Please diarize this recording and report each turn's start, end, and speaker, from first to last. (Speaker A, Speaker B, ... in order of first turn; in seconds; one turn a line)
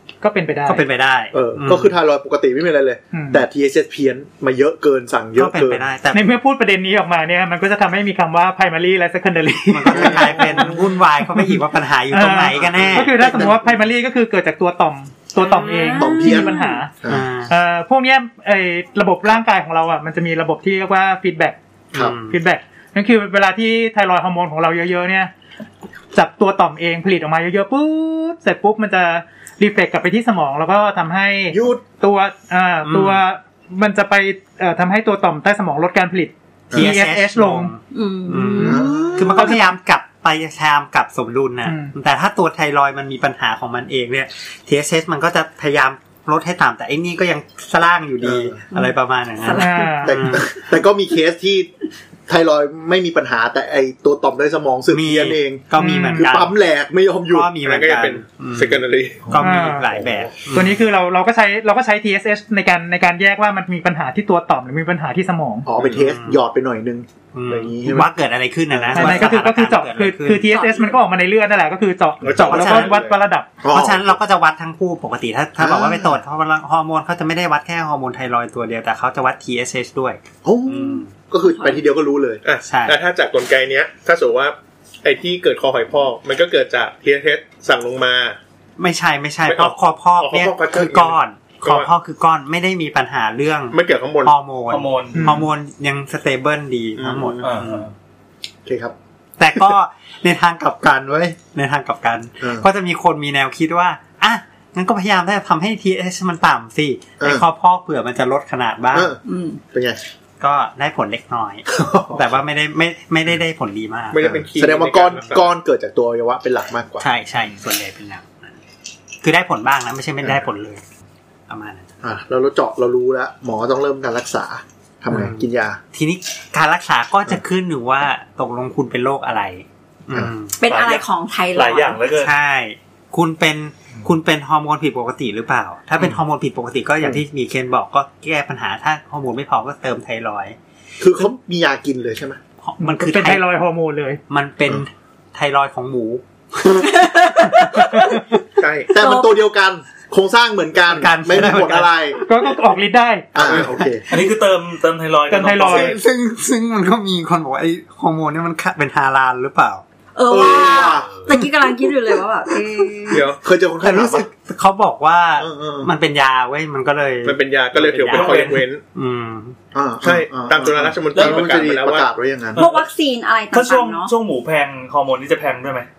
Speaker A: 0.2-0.8
Speaker B: 0.7-1.9
Speaker C: 1.3-5.8
Speaker A: 3.1-3.5
Speaker B: 5.4-6.3
Speaker A: 6.1-11.6
Speaker B: 9.7-13.6
Speaker C: 9.9-10.8
Speaker A: 12.1-16.9
Speaker C: 12.7-13.7
Speaker D: 15.4-16.9
Speaker C: 16.0-17.3
Speaker B: 17.1-17.5
Speaker A: 17.5-21.6
Speaker B: 21.9-22.4
Speaker A: 22.3-25.3
Speaker A: 26.1-37.7
Speaker C: 31.5-31.8
Speaker B: 32.9-33.2
Speaker C: 36.7-37.0
Speaker B: 36.7-50.7
Speaker D: 37.9-39.2
Speaker A: 38.6-39.6
Speaker C: 38.6-39.6
Speaker A: 41.6-41.9
Speaker C: 48.2-48.6
Speaker D: 49.4-50.0
Speaker A: 49.6-50.2
Speaker C: 50.0-51.7
Speaker C: 52.3-57.5
Speaker B: 54.9-56.5
Speaker A: 55.8-56.3
Speaker B: 57.3-60.9
Speaker E: 57.6-59.4
Speaker C: 59.3-59.7
Speaker A: 59.4-59.9
Speaker E: 60.0-60.3
Speaker A: 60.5-65.7
Speaker C: 65.7-68.1
Speaker B: 65.8-66.4
Speaker B: 67.3-70.5
Speaker C: 68.7-69.4
Speaker A: 69.0-73.5
Speaker D: 70.5-71.0
Speaker E: 72.2-73.2
Speaker B: 72.4-73.0
Speaker C: 73.6-74.2
Speaker B: 73.7-81.1
Speaker C: 75.6-76.2
Speaker C: 80.4-82.4
Speaker D: 81.4-81.8
Speaker E: 82.4-88.4
Speaker B: 82.6-83.0
Speaker B: 88.8-97.9
Speaker E: 89.5-91.9
Speaker E: 93.7-94.3
Speaker F: 94.7-95.2
Speaker A: 95.1-95.5
Speaker C: 97.0-97.4
Speaker F: 97.4-97.9
Speaker C: 98.7-99.0
Speaker B: 99.4-109.2
Speaker C: 102.4-102.7
Speaker C: 107.2-107.5
Speaker C: 108.9-109.2
Speaker D: 109.2-109.6
Speaker C: 109.7-110.0
Speaker B: 110.4-114.3
Speaker C: 111.7-112.4
Speaker E: 114.1-115.5
Speaker C: 114.2-117.1
Speaker B: 117.0-118.6
Speaker B: 119.2-120.8
Speaker B: 121.5-121.9
Speaker C: 122.0-125.8
Speaker B: 125.1-130.6
Speaker D: 130.6-132.0
Speaker F: 130.7-132.3
Speaker B: 132.1-140.6
Speaker C: 141.0-142.4
Speaker B: 142.6-143.4
Speaker A: 142.8-144.2
Speaker B: 144.3-148.4
Speaker D: 146.8-148.2
Speaker E: 148.6-148.9
Speaker C: 148.9-152.2
Speaker D: 148.9-149.4
Speaker B: 150.9-151.9
Speaker A: 152.3-153.3
Speaker C: 153.3-154.1
Speaker E: 153.4-153.7
Speaker F: 154.1-156.0
Speaker A: 155.3-156.0
Speaker B: 155.6-159.8
Speaker D: 160.2-163.3
Speaker C: 160.3-161.2
Speaker F: 160.8-161.3
Speaker E: 163.1-163.4
Speaker C: 163.3-164.3
Speaker B: 163.8-169.6
Speaker C: 165.4-165.9
Speaker E: 167.2-168.8
Speaker F: 168.1-168.6
Speaker C: 169.7-172.6
Speaker E: 170.0-172.1
Speaker F: 171.1-171.4
Speaker F: 172.6-172.9
Speaker D: 172.6-174.1
Speaker F: 173.5-175.9